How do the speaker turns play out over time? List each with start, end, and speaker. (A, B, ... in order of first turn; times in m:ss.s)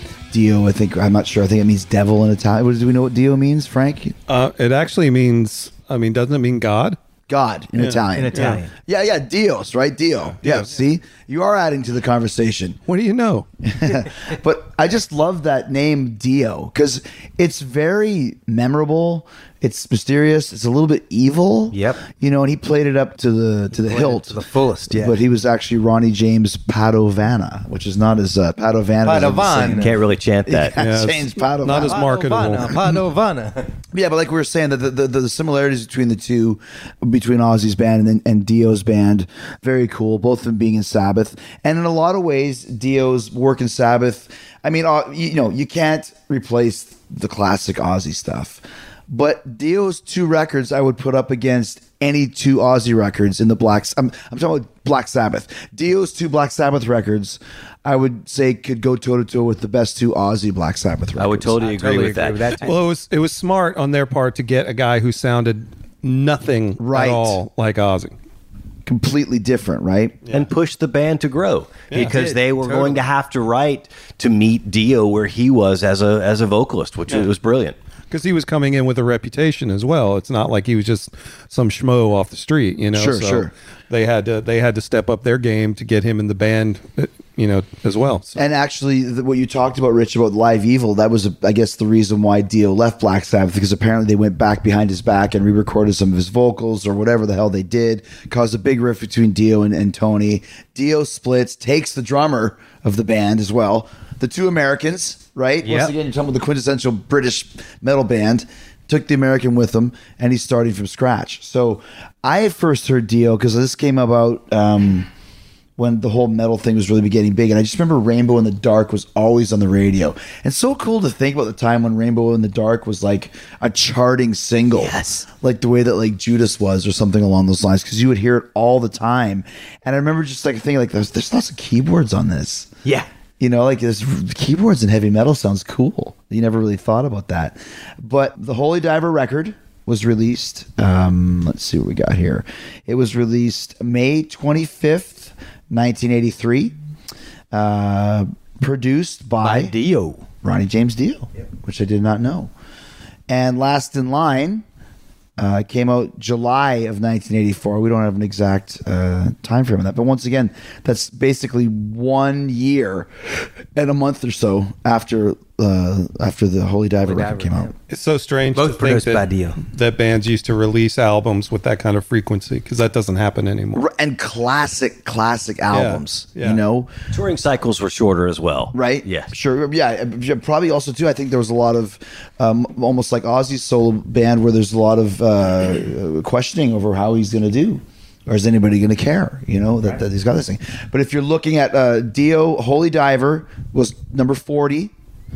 0:00.3-0:04.2 A
0:04.3-0:07.0 B
0:07.3-0:12.8 A
0:07.8-0:08.6 B
0:08.1-0:08.7 C
0:12.9-0:13.5 B
0:13.6-0:24.4 A
0:21.7-0:22.0 C
0:23.7-0:25.2 C
0:24.9-0:29.9 A
0:29.0-0:30.0 C
0:29.8-0:30.8 D
0:30.5-0:32.1 A
0:30.8-0:32.8 B
0:31.7-0:33.7 C
0:32.6-0:33.0 A
0:33.9-1:01.6 A
1:01.2-1:02.6 D
1:01.6-1:02.8 C
1:02.6-1:08.2 B
1:06.8-1:07.4 A
1:08.9-1:10.2 A
1:10.3-1:17.8 D
1:11.9-1:13.0 C
1:18.1-1:28.4 B
1:22.9-1:23.5 A
1:28.4-1:55.1 A
1:45.6-1:45.9 C
1:55.8-2:12.7 A
2:04.8-2:05.3 C
2:13.4-2:26.8 A
2:27.5-2:29.7 A
2:29.4-2:30.2 C
2:30.4-2:32.5 A
2:33.3-2:34.6 A
2:35.4-2:47.7 A
2:47.1-2:47.7 C
2:47.9-2:53.8 B
2:48.5-2:49.6 C
2:53.7-2:56.9 A
2:55.7-2:56.6 B
2:57.1-2:59.3 D
2:58.7-3:14.9 A